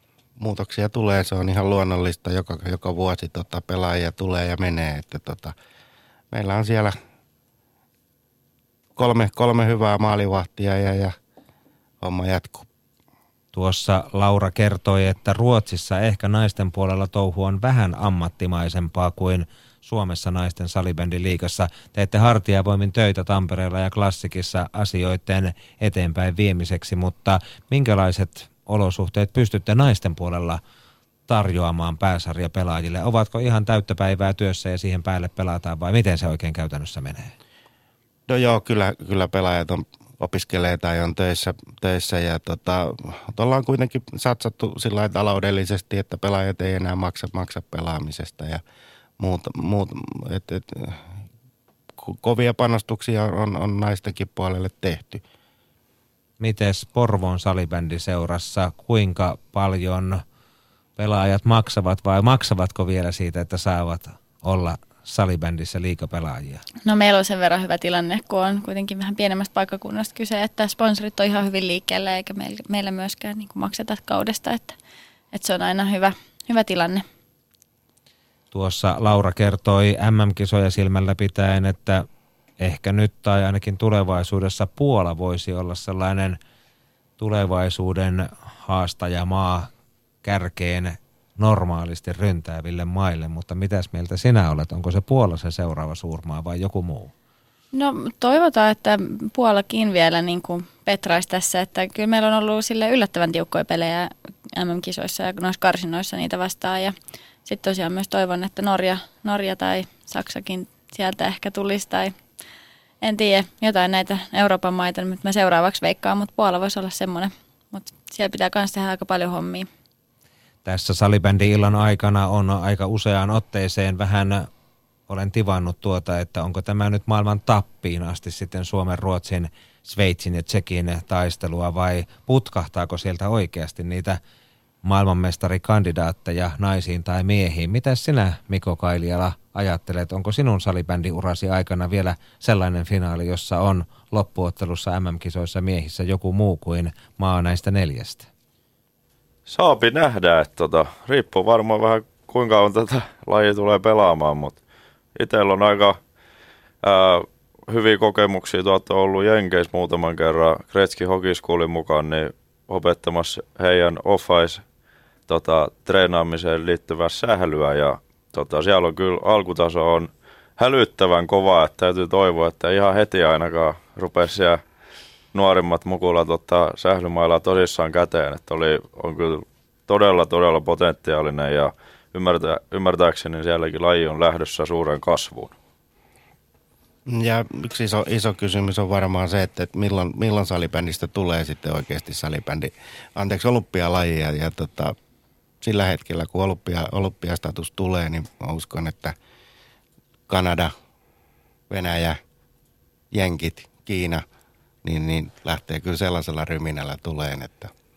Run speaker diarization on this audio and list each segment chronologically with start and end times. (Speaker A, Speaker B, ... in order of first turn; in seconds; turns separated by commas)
Speaker A: 0.4-5.5, Speaker A: 6.3-6.9, Speaker A: 8.9-11.1, Speaker A: 12.0-12.7, Speaker B: 13.5-30.6, Speaker B: 31.3-37.3, Speaker A: 38.3-48.6, Speaker A: 49.2-51.1, Speaker A: 52.0-55.2, Speaker B: 56.4-60.2, Speaker B: 61.0-66.6, Speaker C: 66.8-74.7, Speaker C: 75.3-77.0, Speaker B: 78.5-82.0, Speaker B: 82.6-86.4, Speaker B: 87.2-89.7, Speaker B: 90.2-97.1, Speaker C: 97.7-112.2, Speaker C: 113.0-119.7, Speaker B: 120.6-124.5, Speaker B: 125.1-134.2, Speaker B: 134.8-148.3, Speaker D: 149.5-154.6, Speaker D: 155.1-156.0, Speaker D: 156.8-164.6, Speaker D: 165.3-174.6, Speaker D: 175.3-185.6, Speaker A: 187.1-194.9, Speaker A: 195.6-199.1, Speaker A: 200.3-200.7, Speaker A: 201.7-202.2, Speaker A: 203.1-204.2, Speaker A: 204.8-207.7